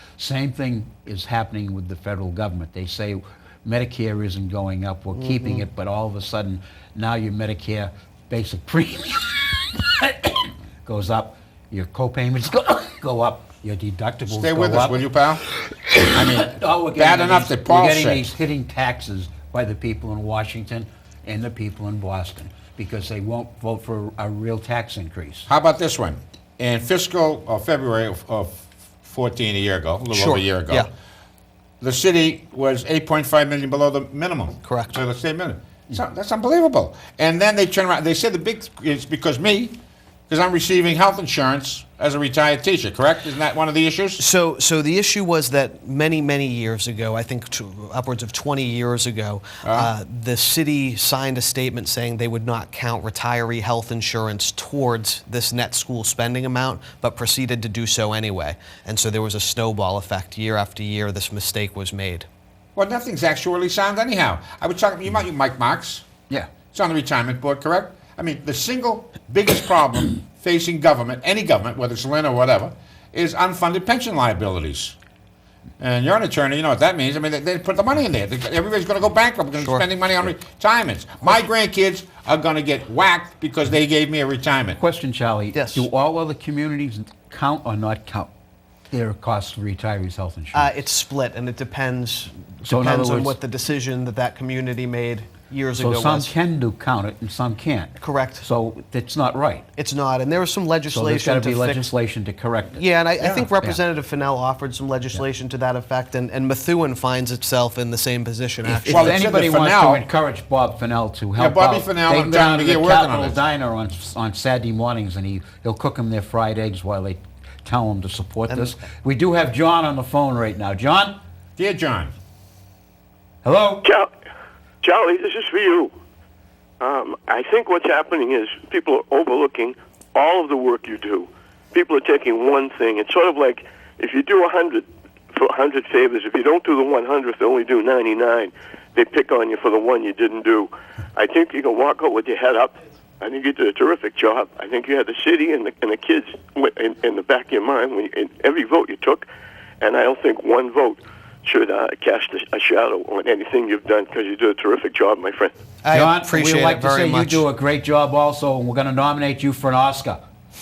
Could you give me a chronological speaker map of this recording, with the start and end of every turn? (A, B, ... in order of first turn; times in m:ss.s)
0:00.2-0:15.0 A
0:05.1-0:05.6 B
0:14.3-0:15.5 C
0:15.7-0:25.5 A
0:16.1-0:18.3 C
0:25.5-0:30.9 C
0:30.1-0:30.9 B
0:31.8-0:39.8 C
0:34.6-0:35.0 B
0:40.3-0:44.2 C
0:44.2-1:02.3 B
0:49.6-0:49.9 C
1:02.8-1:06.1 C
1:06.7-1:15.0 C
1:15.8-1:24.8 C
1:24.8-1:28.3 A
1:25.5-1:25.9 B
1:28.9-1:30.7 A
1:30.5-1:36.3 B
1:32.6-1:33.4 A
1:35.8-1:39.6 A
1:38.0-1:38.4 B
1:39.8-1:41.9 B
1:40.9-1:42.8 A
1:42.7-1:49.2 B
1:43.2-1:43.5 C
1:48.7-2:01.2 A
1:48.9-1:50.0 C
1:51.4-1:53.4 C
2:01.6-2:02.1 C
2:03.4-2:03.8 A
2:03.8-2:04.1 D
2:04.8-2:05.9 D
2:06.8-2:29.3 D
2:29.8-2:35.5 D
2:35.8-2:37.4 B
2:35.9-2:40.2 A